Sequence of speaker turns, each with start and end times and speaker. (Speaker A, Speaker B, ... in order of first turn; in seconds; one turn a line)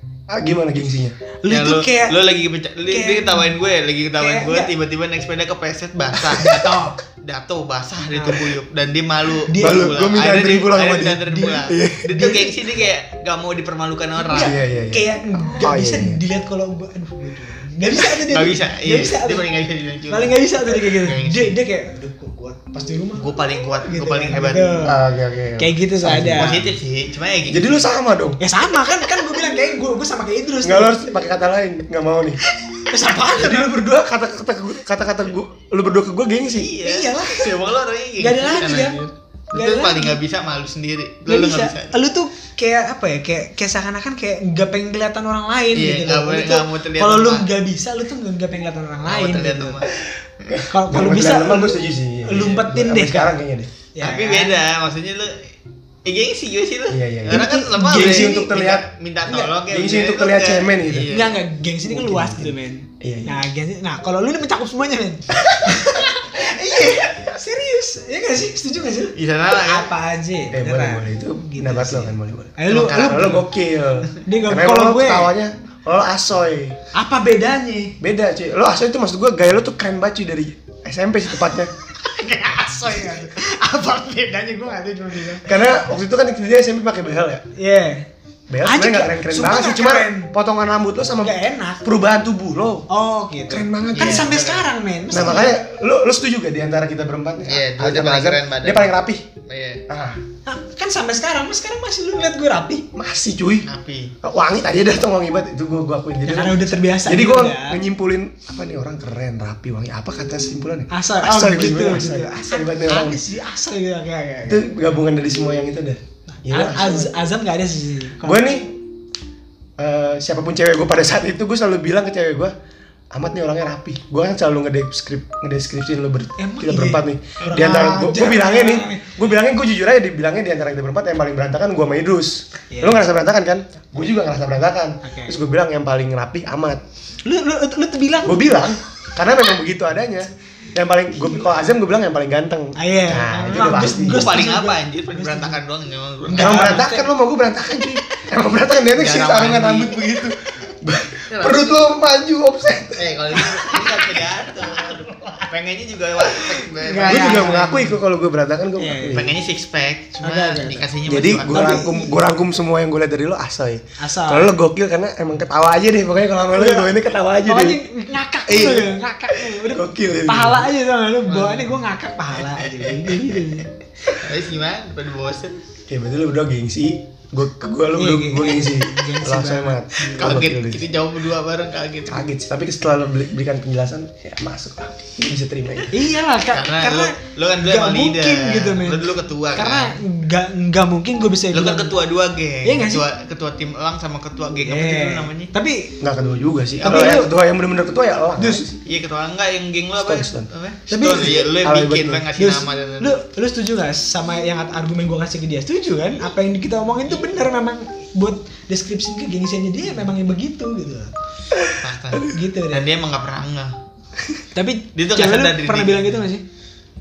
Speaker A: 0.3-1.2
Speaker B: 1.4-2.2
Speaker C: 1.5-6.6
Speaker B: 2.9-3.5
Speaker B: 4.2-4.7
Speaker B: 6.3-7.0
Speaker C: 7.1-14.6
Speaker A: 8.2-8.4
Speaker B: 9.5-10.0
Speaker A: 9.6-12.3
Speaker B: 11.3-12.5
Speaker B: 14.2-19.5
Speaker A: 14.3-16.2
Speaker C: 18.0-21.6
Speaker B: 20.1-24.9
Speaker C: 23.2-24.9
Speaker A: 24.9-26.6
Speaker B: 25.6-26.7
Speaker C: 26.4-27.9
Speaker A: 27.5-28.4
Speaker B: 28.4-31.1
Speaker A: 30.6-32.4
Speaker B: 32.7-33.7
Speaker A: 33.2-36.7
Speaker C: 36.5-42.0
Speaker B: 36.8-37.6
Speaker B: 38.2-40.2
Speaker B: 41.3-49.8
Speaker C: 45.7-47.5
Speaker C: 49.1-50.6
Speaker A: 50.5-53.7
Speaker B: 50.7-53.4
Speaker B: 54.0-54.6
Speaker C: 54.0-55.5
Speaker C: 56.0-61.3
Speaker A: 56.9-61.1
Speaker B: 57.3-58.5
Speaker B: 61.1-73.5
Speaker A: 61.9-63.4
Speaker C: 69.2-69.9
Speaker A: 70.5-76.8
Speaker B: 74.2-75.3
Speaker B: 76.9-78.0
Speaker A: 78.0-81.7
Speaker B: 82.0-85.8
Speaker A: 85.4-87.4
Speaker B: 87.6-88.1
Speaker A: 88.5-92.9
Speaker B: 88.6-90.3
Speaker B: 91.2-91.8
Speaker B: 92.9-95.6
Speaker A: 93.5-94.3
Speaker C: 94.0-94.7
Speaker A: 95.1-99.3
Speaker C: 97.5-98.9
Speaker C: 99.5-99.8
Speaker A: 99.9-100.2
Speaker B: 100.5-102.9
Speaker A: 102.9-103.7
Speaker C: 103.6-104.1
Speaker A: 104.2-113.2
Speaker B: 106.3-107.8
Speaker B: 110.9-114.7
Speaker A: 114.5-117.1
Speaker B: 116.5-118.5
Speaker A: 118.2-118.8
Speaker A: 119.8-122.5
Speaker A: 123.1-136.8
Speaker B: 126.4-129.2
Speaker B: 132.7-133.0
Speaker B: 135.0-135.4
Speaker B: 137.2-138.7
Speaker A: 138.2-144.3
Speaker B: 142.8-145.6
Speaker C: 144.0-146.9
Speaker B: 146.3-147.1
Speaker A: 146.4-154.1
Speaker C: 148.9-150.2
Speaker C: 151.3-151.9
Speaker C: 153.0-157.8
Speaker B: 156.8-157.9
Speaker A: 157.0-159.4
Speaker B: 158.8-159.3
Speaker C: 159.1-161.8
Speaker B: 160.2-160.9
Speaker A: 161.1-167.8
Speaker B: 161.5-162.2
Speaker B: 164.0-164.5
Speaker B: 166.5-166.9
Speaker B: 167.4-173.7
Speaker A: 168.5-168.9
Speaker A: 169.7-170.7
Speaker C: 171.2-171.8
Speaker C: 172.3-175.6
Speaker A: 175.9-180.9
Speaker B: 177.9-180.4
Speaker C: 180.1-182.2
Speaker A: 182.1-185.9
Speaker B: 185.9-192.0
Speaker C: 186.5-190.0
Speaker C: 191.5-195.5
Speaker B: 192.7-193.0
Speaker B: 194.6-196.0
Speaker A: 196.0-198.8
Speaker C: 196.8-197.2
Speaker B: 196.8-197.3
Speaker B: 198.4-198.7
Speaker C: 198.8-203.2
Speaker A: 200.0-200.5
Speaker B: 200.9-201.5
Speaker A: 201.6-202.3
Speaker B: 202.4-211.1
Speaker A: 211.5-212.2
Speaker C: 211.7-213.8
Speaker B: 212.3-212.9
Speaker B: 214.5-216.4
Speaker C: 214.9-216.3